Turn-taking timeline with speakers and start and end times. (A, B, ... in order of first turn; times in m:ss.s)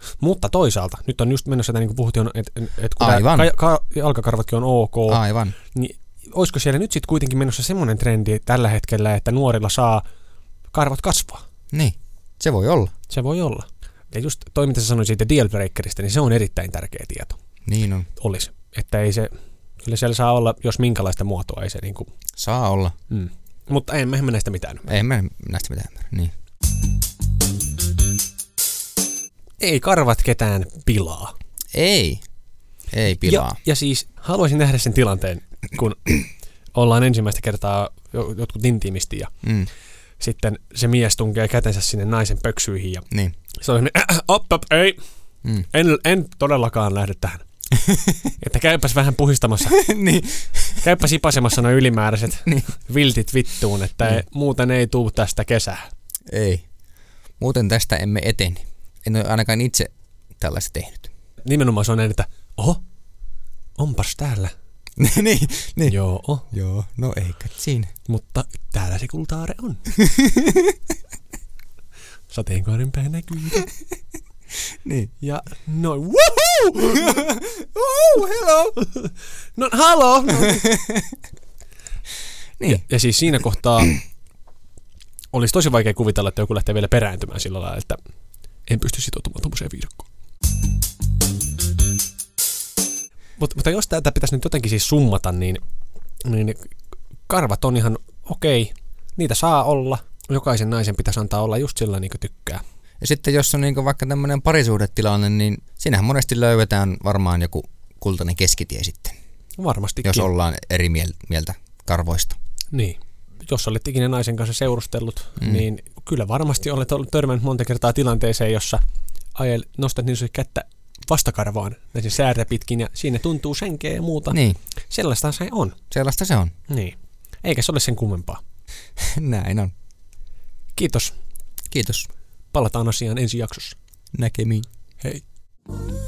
0:00.2-0:10.0 A
0:03.0-0:03.5 B
0:05.1-0:05.6 B
0:10.7-0:11.4 A
0:11.7-0:12.9 B
0:13.1-0:17.4 A
0:17.7-0:18.1 B
0:18.2-0:19.3 A
0:19.8-0:22.1 A
0:22.4-0:23.0 B
0:23.1-0:24.9 A
0:24.9-0:26.3 B
0:29.6-0:31.3 A
0:31.7-0:32.2 B
0:32.9-0:33.6 B
0:33.2-0:39.3 A
0:39.4-0:39.7 B
0:40.2-0:45.0 A
0:45.7-0:47.4 A
0:47.7-0:48.4 B
0:48.4-0:49.8 A
0:49.7-0:50.9 B
0:50.8-0:55.9 A
0:56.3-0:56.6 B
0:57.4-1:01.1 B
1:01.4-1:02.8 A
1:03.8-1:04.5 A
1:05.0-1:06.0 B
1:05.9-1:06.5 A
1:06.5-1:07.9 B
1:08.1-1:09.8 A
1:10.0-1:10.7 B
1:12.3-1:13.7 A
1:14.7-1:15.1 B
1:15.2-1:20.7 A
1:16.9-1:18.8 B
1:20.6-1:21.2 B
1:22.6-1:22.8 B
1:22.6-1:24.0 A
1:25.3-1:28.0 A
1:28.7-1:30.1 A
1:33.4-1:35.6 A
1:36.2-1:36.7 A
1:37.3-1:42.6 A
1:43.0-1:49.2 B
1:49.6-1:50.3 A
1:50.0-1:52.4 B
1:52.7-1:58.8 A
1:55.4-1:55.6 B
1:59.4-2:04.4 A
2:04.3-2:04.6 B
2:04.9-2:05.8 A
2:05.9-2:06.5 B
2:06.7-2:08.4 A
2:09.0-2:09.7 B
2:10.8-2:11.2 A
2:11.7-2:12.1 B
2:12.5-2:13.8 A
2:14.2-2:14.7 B